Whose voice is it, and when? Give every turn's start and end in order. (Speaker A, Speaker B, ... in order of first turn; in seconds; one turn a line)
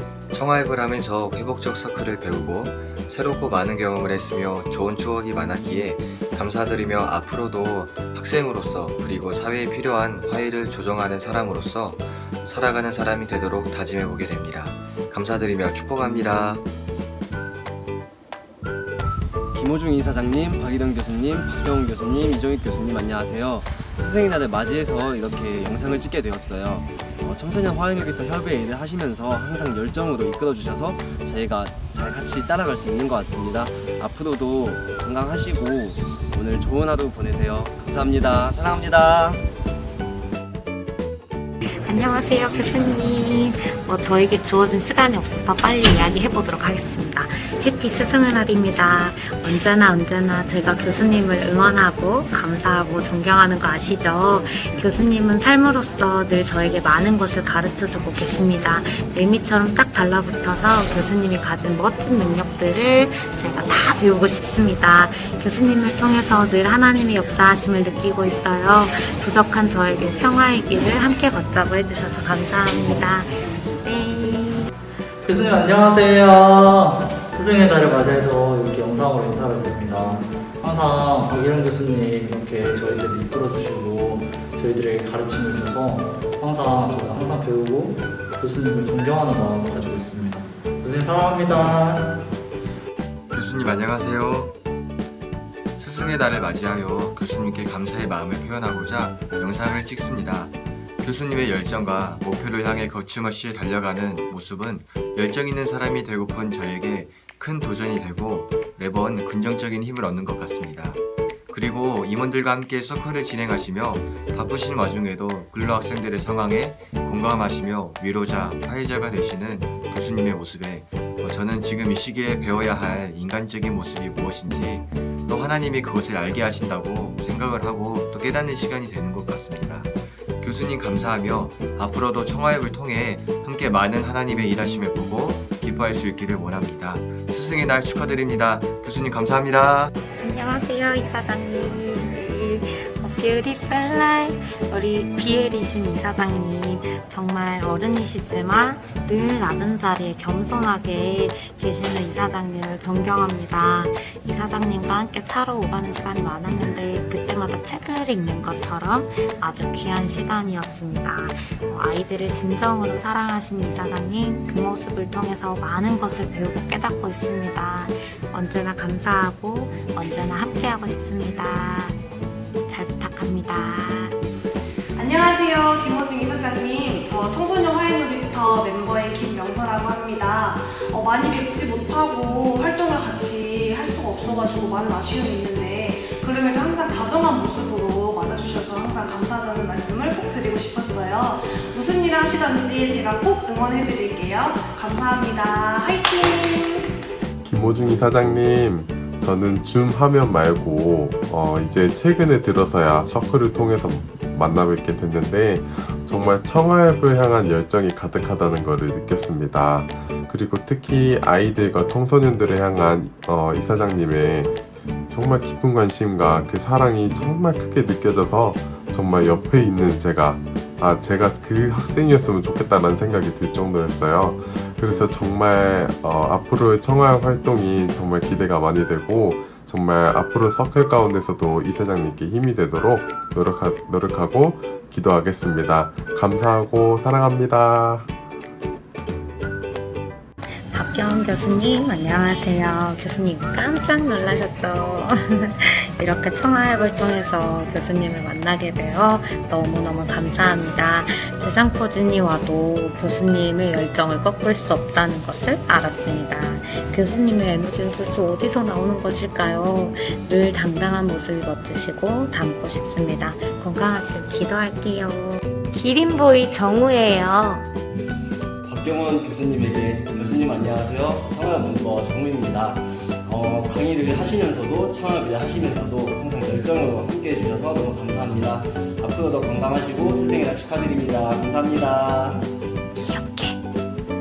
Speaker A: 0.3-16.6
Speaker B: 19.5-39.4
Speaker C: 41.8-74.7
Speaker D: 75.2-92.2
Speaker A: 93.3-94.5
Speaker A: 95.8-139.9
Speaker C: 140.2-172.0
Speaker C: 172.7-174.2
Speaker E: 174.9-196.9
Speaker F: 197.4-214.5
Speaker F: 215.1-238.1
Speaker C: 240.7-267.6
Speaker B: 268.6-282.4
Speaker C: 283.0-283.6